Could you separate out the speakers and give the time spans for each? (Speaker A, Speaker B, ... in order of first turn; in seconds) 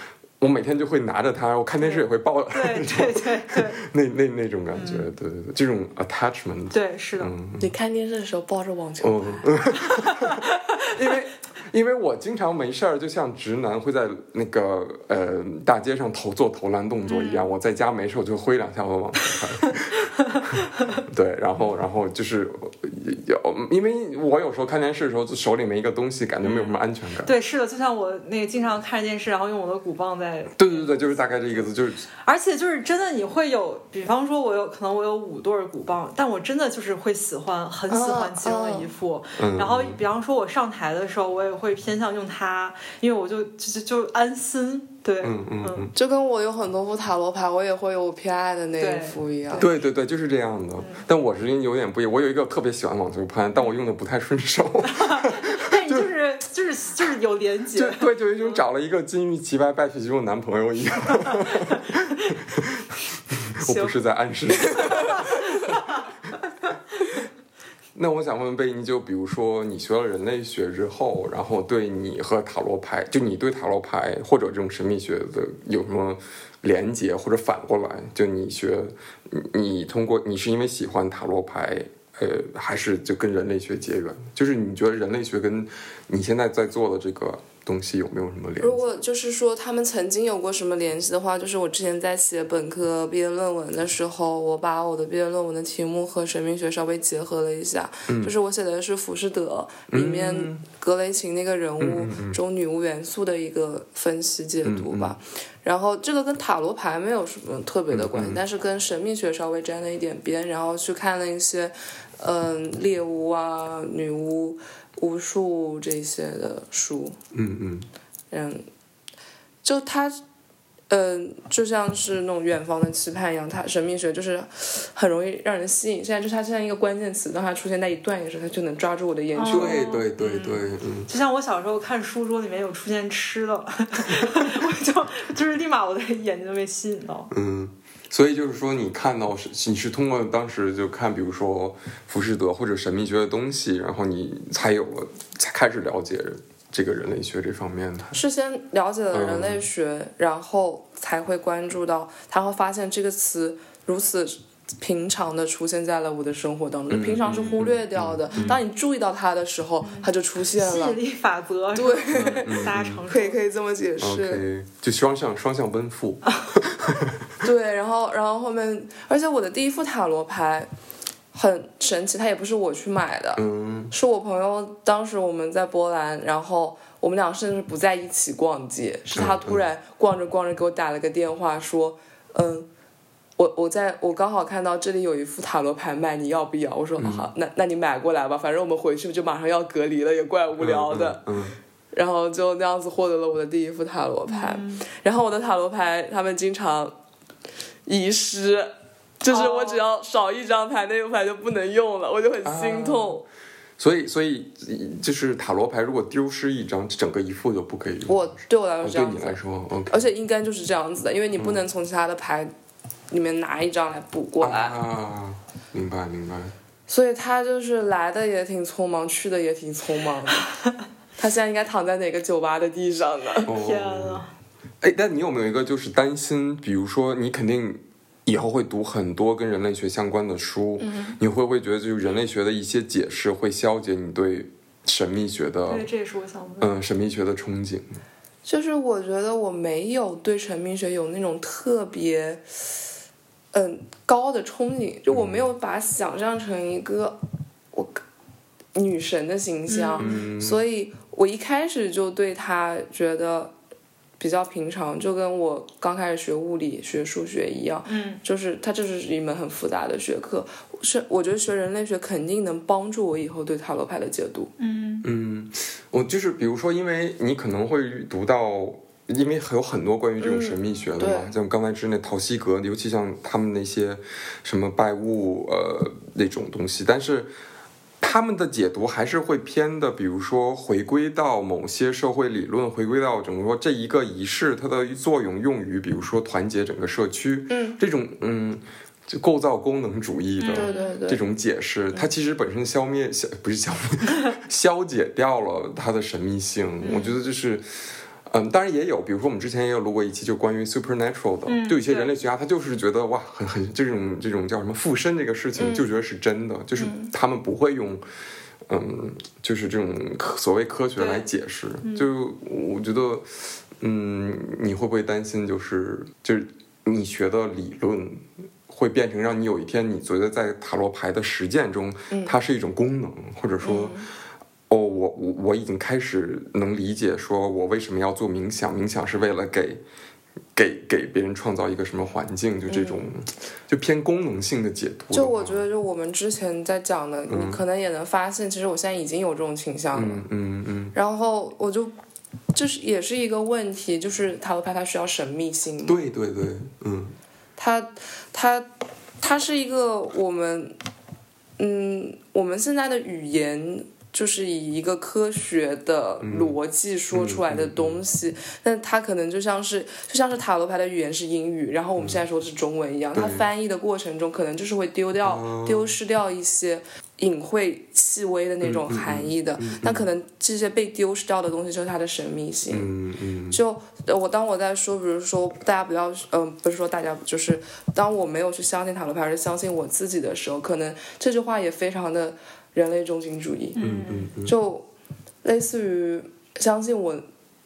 Speaker A: 0.4-7.7, 9.0-27.3, 30.6-32.0, 39.4-40.0, 45.2-45.9, 49.5-56.1, 57.7-65.8, 67.9-88.9, 98.1-98.3, 99.9-100.6, 101.8-102.4, 104.6-105.2, 107.9-108.4, 117.3-117.8, 129.5-131.1, 137.3-148.2, 149.1-149.7, 156.9-158.6, 162.1-163.0, 164.0-167.3, 173.3-173.9, 179.1-179.6, 187.0-187.3, 190.6-191.6, 202.4-203.2, 203.8-208.3, 208.8-210.1, 211.3-211.6, 214.4-216.5, 223.4-224.2, 224.8-235.9, 236.6-238.0, 245.1-245.5, 250.0-250.6, 265.0-277.3, 278.0-297.6, 298.2-308.0, 308.7-324.0, 324.7-329.8, 330.5-335.6, 337.3-337.6, 339.9-340.9, 345.8-347.1, 356.2-356.6, 357.1-358.0, 362.0-362.2, 363.1-363.5, 365.2-365.9, 368.6-370.1, 372.7-373.6, 383.8-384.5
Speaker B: 1.8-3.8, 4.7-5.1, 6.7-7.3, 9.9-10.5, 17.1-17.5, 20.0-21.0, 26.4-31.7, 32.2-45.9, 48.8-49.2, 50.8-51.0, 54.9-58.6, 61.3-62.3, 63.6-64.0, 64.8-66.1, 129.3-137.3, 159.8-163.4, 166.3-166.5, 194.3-194.8, 199.3-199.8, 223.5-224.3, 235.7-236.7, 249.7-250.1, 257.9-258.2, 264.6-265.1, 290.4-290.9, 296.8-297.1, 301.4-302.1, 311.0-311.3, 311.8-312.1, 383.7-384.3
Speaker C: 7.6-9.6, 37.9-38.9, 45.9-49.7, 88.6-117.2, 118.3-118.6, 119.6-120.2, 120.9-129.8, 148.1-161.0, 161.7-164.4, 167.4-170.7, 171.3-182.7, 183.4-191.2, 191.9-196.9, 197.9-203.2, 208.1-212.5, 213.1-214.8, 216.9-220.5, 221.2-223.5, 230.8-231.2, 238.4-242.4, 243.5-247.2, 247.7-248.0, 248.7-253.5, 254.2-264.5, 270.2-271.3, 287.5-287.8, 290.5-291.2, 305.6-305.9, 306.8-307.1, 322.1-322.3, 323.6-324.1, 332.7-333.1, 335.1-340.2, 340.9-341.9, 342.5-346.0, 347.6-348.7, 349.2-350.8, 351.6-372.9, 373.5-383.8, 384.4-384.9, 385.4-387.2